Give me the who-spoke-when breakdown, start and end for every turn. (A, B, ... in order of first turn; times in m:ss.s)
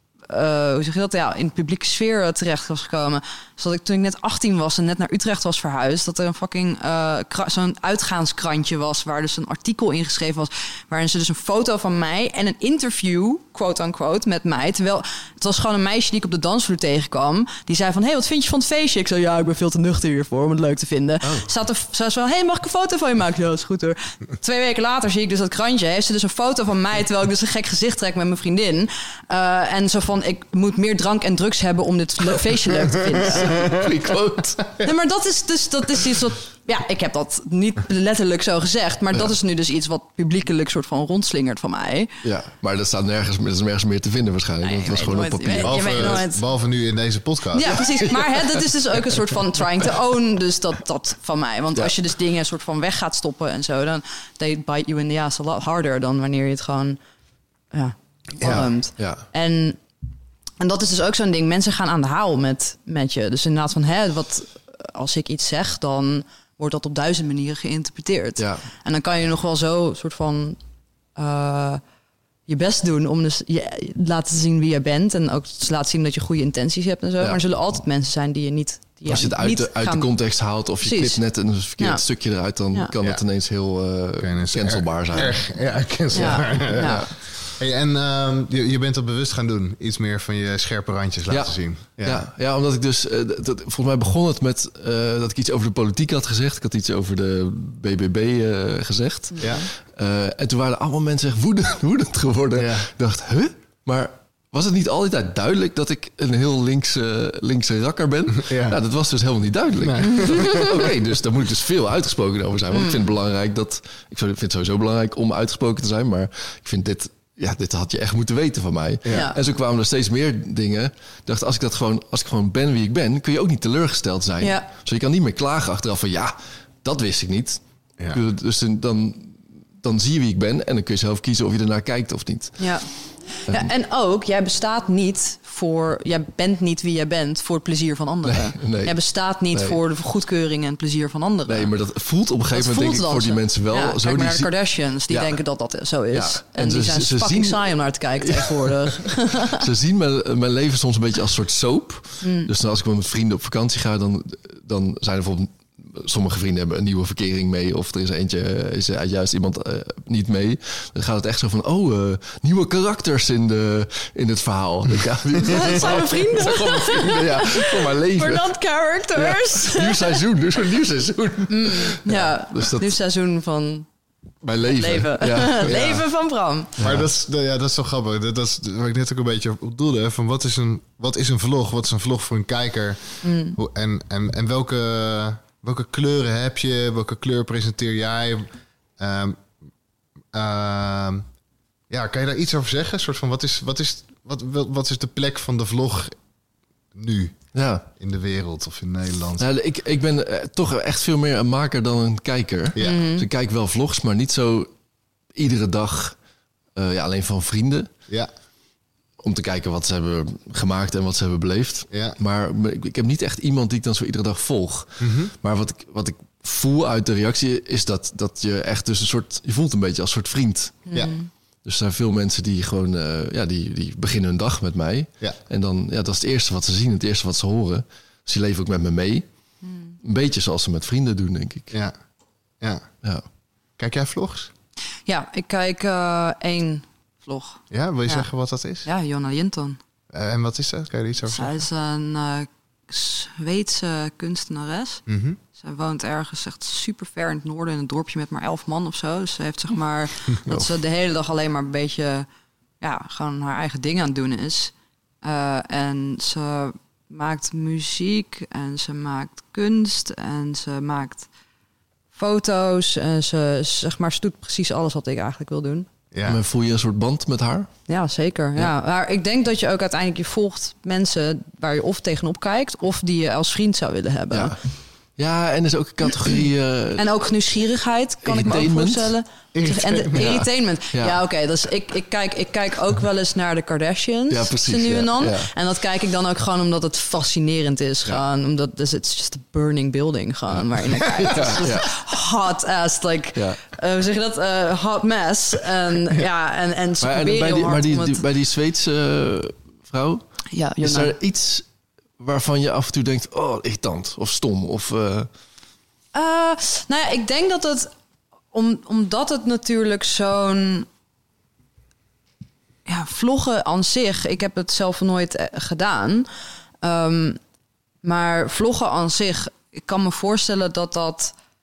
0:00.3-0:33.8 A
0:21.2-0:21.5 B
0:33.3-0:34.6 B
0:34.8-0:42.2 A
0:42.2-0:46.2 B
0:44.6-0:46.4 A
0:45.6-0:47.8 C
0:47.5-0:57.0 A
0:47.7-0:48.6 B
0:57.7-0:59.8 A
0:58.4-0:58.7 C
0:58.4-0:59.2 B
1:00.6-1:10.6 A
1:08.4-1:08.6 B
1:11.2-1:11.8 A
1:12.5-1:20.1 A
1:19.1-1:25.4 B
1:20.8-1:21.2 A
1:21.8-1:22.0 A
1:24.2-1:32.2 C
1:26.1-1:27.4 B
1:26.1-1:27.1 A
1:31.3-2:12.7 B
1:39.3-1:39.7 A
1:42.6-1:42.9 C
1:48.4-1:48.8 C
1:49.8-1:50.8 C
1:50.1-1:50.7 A
1:52.7-1:53.0 A
1:59.1-1:59.4 A
2:04.4-2:04.7 A
2:12.6-2:21.7 A
2:13.5-2:13.7 B
2:18.2-2:19.8 B
2:21.5-2:24.5 B
2:22.5-2:29.6 A
2:25.1-2:25.4 B
2:26.1-2:48.4 B
2:32.2-2:32.5 A
2:45.4-2:50.2 A
2:49.1-2:52.9 B
2:51.5-2:53.9 A
2:54.4-2:55.9 B
2:54.7-2:56.8 A
2:55.6-2:56.0 C
2:56.8-3:09.5 C
2:56.8-2:57.1 B
3:03.2-3:03.6 A
3:10.3-3:11.3 C
3:11.9-3:16.2 C
3:16.9-3:19.4 C
3:17.5-3:17.9 B
3:19.4-3:24.7 B
3:22.8-3:23.0 C
3:22.8-3:23.3 A
3:25.3-3:26.2 B
3:26.8-3:27.9 B
3:29.2-3:40.9 B
3:31.9-3:32.2 C
3:35.0-3:35.3 C
3:40.9-3:41.3 A
3:41.6-3:49.3 B
3:49.6-3:50.0 A
3:50.0-3:51.7 B
3:52.6-3:52.9 C
3:53.8-3:54.5 C
3:55.1-3:58.3 A
3:57.7-3:58.9 C
3:58.8-3:59.8 A
4:00.1-4:01.6 C
4:01.3-4:12.3 A
4:05.1-4:05.4 C
4:12.8-4:21.3 A
4:22.1-4:25.9 A
4:26.1-4:26.4 C
4:26.2-4:27.7 B
4:27.9-4:34.7 A
4:34.3-4:34.6 B
4:35.2-4:37.1 B
4:37.0-4:58.2 A
4:38.2-4:39.1 B
4:39.5-4:40.3 C
4:40.2-4:41.2 B
4:44.3-4:45.5 B
4:51.2-4:51.9 B
4:53.4-4:53.6 B
4:57.0-5:01.7 B
5:00.5-5:01.1 A
5:02.2-5:05.3 B
5:06.1-5:07.9 A
5:08.5-5:10.9 A
5:12.9-5:16.3 A
5:16.8-5:17.4 A
5:18.0-5:21.4 A